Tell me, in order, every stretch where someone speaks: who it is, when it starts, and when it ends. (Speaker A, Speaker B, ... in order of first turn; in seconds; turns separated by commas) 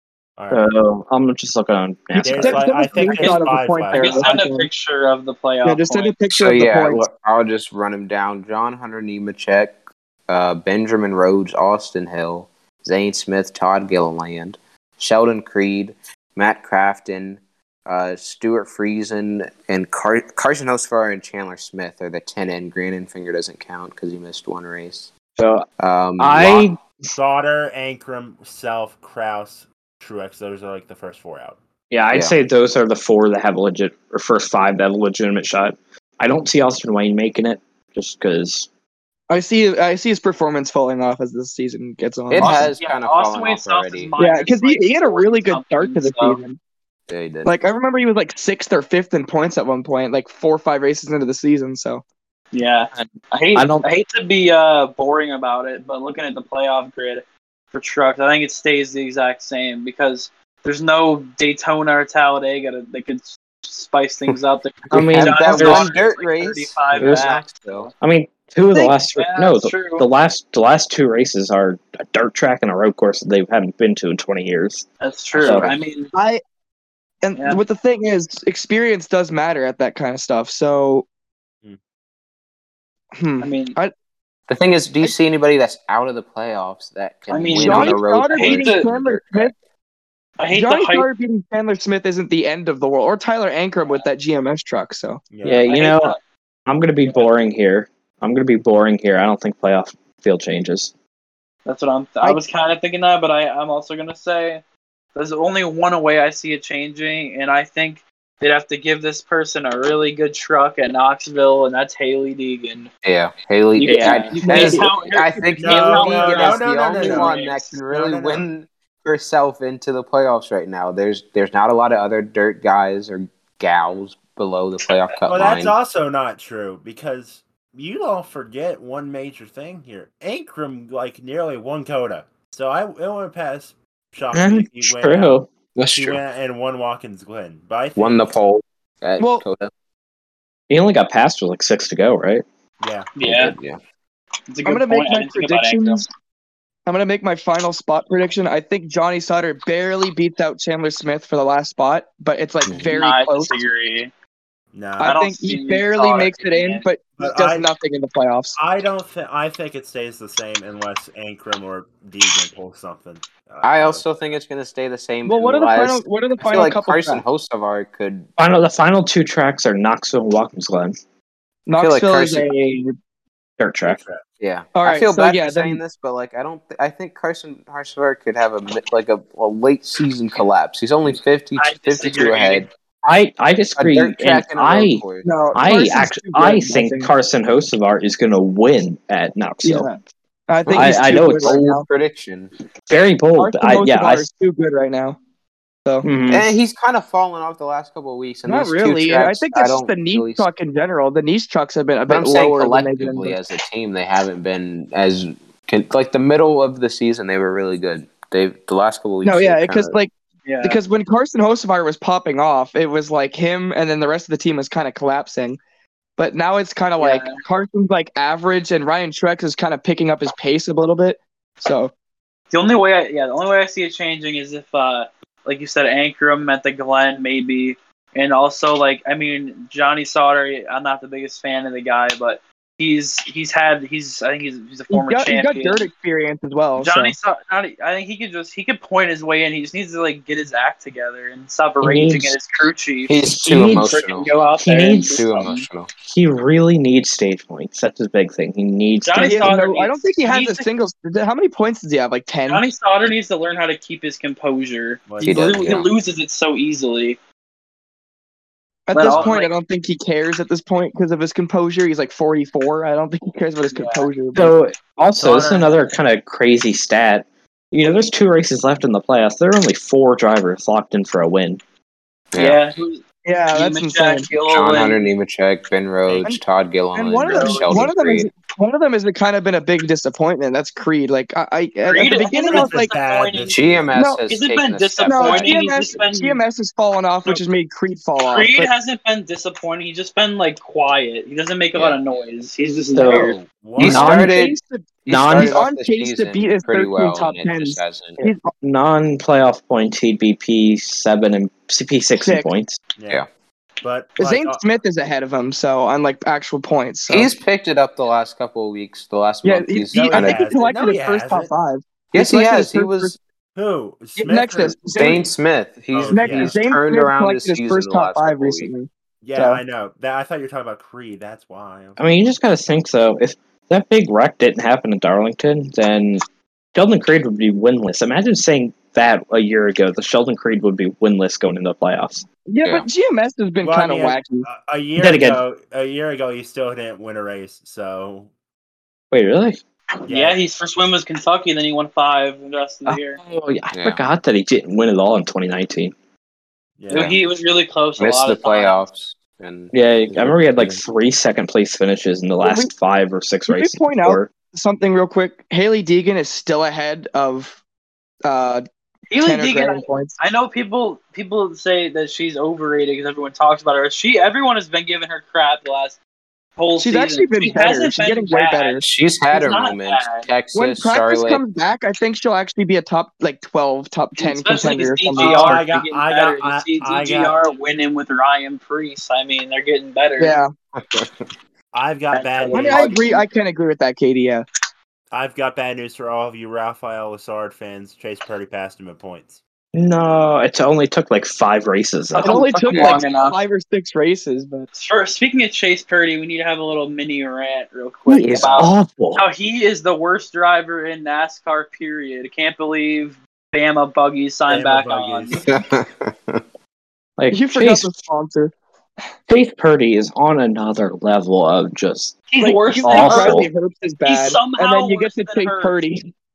Speaker A: 0.4-0.7, Speaker B: 0.5-2.6, Speaker A: 2.2-4.5, Speaker C: 2.2-4.7, Speaker D: 3.1-6.2, Speaker C: 5.6-7.1, Speaker E: 6.3-25.1, Speaker B: 25.4-25.7, Speaker E: 25.8-26.7, Speaker B: 26.2-26.8, Speaker A: 27.1-31.6, Speaker B: 31.9-38.7, Speaker C: 39.3-42.7, Speaker E: 42.3-44.1, Speaker D: 42.4-46.4, Speaker C: 44.2-46.6, Speaker E: 47.1-47.5, Speaker C: 47.5-52.0, Speaker D: 52.5-67.9, Speaker B: 52.9-53.9, Speaker E: 64.9-67.9, Speaker B: 64.9-65.9, Speaker B: 67.0-67.3, Speaker B: 68.0-75.7, Speaker D: 68.8-70.1, Speaker D: 75.0-76.1, Speaker E: 75.4-75.8, Speaker C: 76.1-76.4, Speaker C: 77.2-81.1, Speaker C: 83.2-83.9, Speaker D: 83.4-83.8, Speaker E: 84.5-89.5, Speaker D: 87.3-88.9, Speaker C: 87.5-89.5, Speaker D: 90.4-91.1, Speaker C: 90.5-95.2, Speaker A: 95.3-95.7, Speaker B: 95.4-96.2, Speaker D: 95.7-96.2, Speaker B: 96.7-100.9, Speaker D: 97.0-97.3, Speaker D: 101.7-104.6, Speaker D: 105.2-112.9, Speaker E: 113.0-125.8, Speaker D: 113.8-117.7, Speaker B: 113.8-114.9, Speaker C: 114.3-114.9, Speaker A: 115.6-118.5, Speaker A: 125.3-138.3, Speaker B: 134.3-135.5, Speaker E: 135.8-136.2, Speaker E: 138.0-139.7, Speaker C: 139.2-139.5, Speaker B: 140.7-142.4, Speaker A: 142.8-143.1, Speaker D: 143.2-143.6, Speaker E: 143.2-143.8, Speaker D: 144.5-146.1, Speaker C: 144.7-146.1, Speaker C: 146.9-153.6, Speaker E: 152.7-153.0, Speaker D: 152.9-154.1, Speaker A: 154.7-155.2, Speaker C: 155.0-158.6, Speaker D: 155.0-156.9, Speaker A: 157.2-157.7, Speaker A: 158.6-164.1, Speaker E: 163.6-168.3, Speaker C: 165.3-167.2, Speaker B: 168.4-170.9, Speaker C: 171.7-172.9, Speaker E: 171.8-172.5, Speaker B: 173.6-174.0, Speaker A: 173.8-174.2, Speaker E: 174.4-182.7, Speaker C: 174.8-175.8, Speaker D: 181.6-182.7, Speaker B: 183.0-189.9, Speaker E: 183.8-185.3, Speaker C: 185.2-187.1, Speaker C: 189.6-191.8, Speaker E: 190.7-192.5, Speaker B: 190.7-191.7, Speaker B: 192.9-194.3, Speaker C: 193.4-195.2, Speaker B: 196.0-196.5, Speaker E: 196.3-200.5, Speaker C: 198.5-203.4, Speaker E: 202.1-210.0, Speaker C: 209.2-210.1, Speaker D: 210.5-210.8, Speaker C: 210.6-215.6, Speaker C: 216.2-221.9, Speaker D: 217.0-217.4, Speaker D: 222.5-235.8, Speaker C: 234.9-237.2, Speaker D: 236.8-245.7, Speaker B: 241.8-242.3, Speaker E: 243.1-244.3, Speaker B: 243.3-243.9, Speaker B: 244.6-245.3, Speaker E: 245.0-245.9, Speaker B: 246.0-249.5, Speaker D: 249.0-250.7, Speaker C: 249.2-252.7, Speaker D: 252.5-257.2, Speaker A: 255.1-255.4, Speaker E: 255.2-255.9, Speaker C: 258.9-264.5, Speaker D: 258.9-259.5, Speaker A: 259.1-259.4, Speaker D: 263.7-264.1, Speaker B: 264.4-271.6, Speaker A: 265.2-265.9, Speaker E: 272.3-272.6, Speaker D: 272.4-275.1, Speaker C: 273.2-274.3, Speaker E: 274.5-278.3, Speaker A: 276.1-276.3, Speaker C: 276.9-282.9, Speaker D: 277.3-277.9, Speaker D: 281.8-283.6, Speaker A: 282.4-284.0, Speaker E: 283.5-285.5, Speaker C: 283.9-284.2, Speaker D: 284.3-286.4, Speaker C: 285.1-288.7, Speaker D: 288.2-293.3, Speaker E: 291.7-292.0, Speaker B: 292.9-294.3, Speaker A: 293.0-294.2, Speaker E: 293.8-298.2, Speaker C: 293.8-298.5, Speaker B: 295.1-295.6, Speaker B: 298.6-302.8, Speaker C: 302.2-302.5, Speaker A: 303.0-303.2, Speaker A: 303.8-304.6, Speaker C: 304.2-307.3, Speaker E: 307.1-310.6, Speaker C: 309.4-313.2, Speaker A: 309.9-311.5, Speaker E: 312.1-313.2, Speaker A: 313.6-315.3, Speaker C: 314.2-315.2, Speaker E: 314.9-318.7, Speaker A: 315.9-316.6, Speaker C: 316.1-319.6, Speaker A: 319.2-322.0, Speaker B: 322.0-326.2, Speaker B: 326.7-332.3, Speaker C: 332.4-334.5, Speaker A: 333.6-338.3, Speaker B: 335.0-335.4, Speaker B: 339.1-339.6, Speaker A: 340.1-340.4, Speaker D: 340.1-343.2, Speaker B: 342.9-345.9, Speaker E: 343.7-344.0, Speaker A: 346.8-347.1, Speaker D: 346.9-348.9, Speaker E: 346.9-347.2, Speaker E: 348.0-350.8, Speaker B: 349.7-354.3, Speaker C: 352.4-352.7, Speaker C: 353.5-357.6, Speaker C: 358.2-358.6, Speaker D: 359.1-366.0, Speaker C: 359.2-360.2, Speaker D: 366.6-370.3, Speaker C: 366.8-368.8, Speaker E: 368.8-371.4, Speaker C: 370.5-375.6, Speaker D: 374.2-380.4, Speaker A: 375.2-377.4, Speaker C: 380.2-380.5, Speaker E: 380.8-381.3, Speaker A: 381.7-383.0, Speaker D: 382.1-383.2, Speaker C: 382.5-384.4, Speaker A: 385.1-389.4, Speaker B: 389.7-393.0, Speaker D: 392.1-393.4, Speaker C: 392.2-394.7, Speaker D: 394.8-405.4, Speaker B: 398.1-399.2, Speaker A: 404.5-405.4, Speaker E: 405.3-406.4, Speaker B: 407.2-407.9, Speaker C: 407.3-408.5, Speaker B: 409.3-412.2, Speaker D: 412.3-413.4, Speaker C: 412.4-416.1, Speaker B: 412.8-413.5, Speaker D: 414.0-415.8